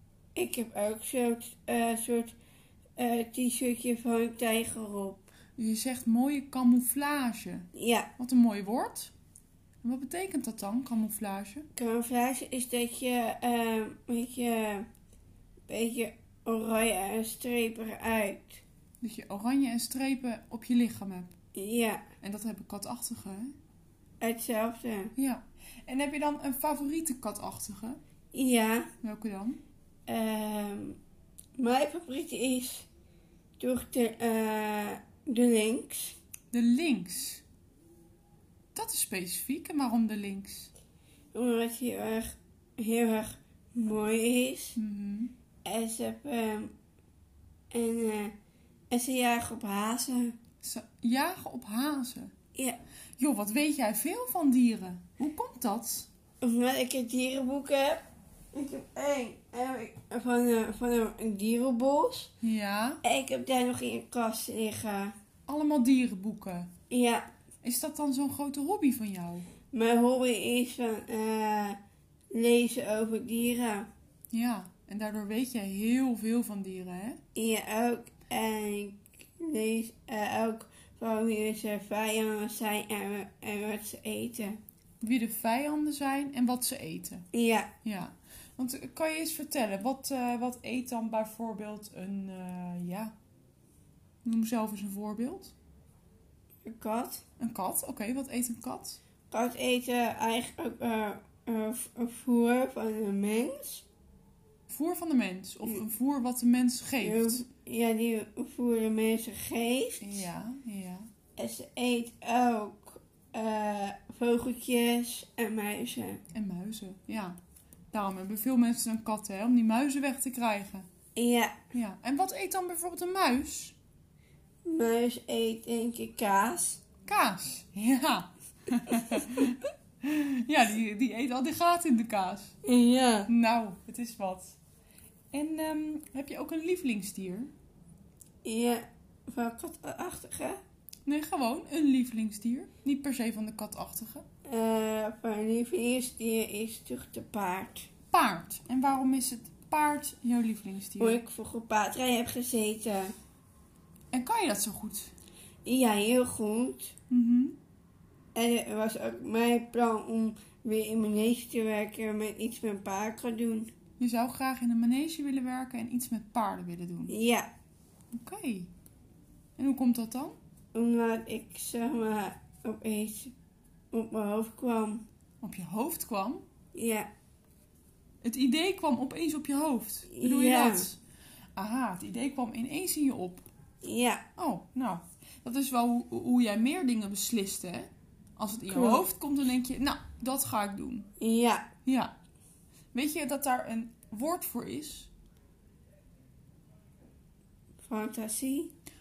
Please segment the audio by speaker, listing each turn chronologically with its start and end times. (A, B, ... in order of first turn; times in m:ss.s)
0:00.4-0:02.3 A
0:03.0-0:05.3 A
0:05.6-0:09.1 B
0:07.7-0:08.1 A
0:09.8-0:11.7 B
0:11.8-0:14.8 A
0:15.7-0:18.6 A
0:19.0-0:21.3 B
0:21.6-0:22.0 A
0:22.2-0:23.5 B
0:24.2-0:25.1 A
0:25.2-0:28.0 B
0:28.3-0:28.9 A
0:29.0-0:29.6 B
0:30.1-0:31.0 A
0:31.6-0:32.9 A
0:33.6-0:36.2 A
0:36.5-0:37.4 B
0:38.7-0:40.7 B
0:41.3-0:44.8 A
0:44.8-0:45.3 B
0:45.6-0:46.7 A
0:47.7-0:48.3 A
0:48.9-0:50.3 A
0:50.6-0:52.3 B
0:53.2-0:56.1 B
0:56.4-0:58.0 A
0:58.5-1:02.3 A
1:02.4-1:03.0 B
1:03.0-1:05.1 A
1:05.5-1:06.7 B
1:06.9-1:07.3 A
1:07.6-1:09.5 B
1:09.7-1:11.8 A
1:12.3-1:13.9 A
1:14.3-1:17.2 B
1:17.4-1:24.6 A
1:25.0-1:27.3 B
1:27.3-1:27.7 A
1:27.8-1:33.1 B
1:34.2-1:35.5 B
1:36.6-1:37.2 A
1:37.4-1:39.0 B
1:39.3-1:43.9 A
1:44.7-1:47.4 B
1:47.0-1:50.2 A
1:50.0-1:51.1 B
1:51.4-1:56.2 A
1:56.3-1:57.4 B
1:57.9-2:00.9 B
2:01.2-2:01.6 A
2:01.7-2:03.8 B
2:04.6-2:06.8 A
2:07.1-2:12.6 B
2:12.6-2:13.3 A
2:13.3-2:14.6 B
2:15.3-2:17.5 B
2:18.4-2:20.6 A
2:21.1-2:24.2 B
2:24.5-2:27.9 A
2:28.1-2:31.2 B
2:31.0-2:33.1 A
2:34.1-2:35.1 B
2:35.7-2:36.9 A
2:37.1-2:37.6 B
2:38.4-2:43.7 A
2:44.0-2:47.2 B
2:47.1-2:47.5 A
2:48.1-2:48.7 B
2:49.6-2:50.4 B
2:50.7-2:53.3 A
2:53.9-2:55.0 A
2:55.4-2:56.4 B
2:56.8-2:57.1 A
2:58.2-3:01.0 B
3:00.1-3:00.9 A
3:01.6-3:03.5 B
3:03.8-3:04.2 A
3:04.4-3:11.1 B
3:08.7-3:09.1 A
3:11.2-3:11.7 A
3:11.8-3:12.1 B
3:12.9-3:15.1 B
3:17.8-3:18.7 A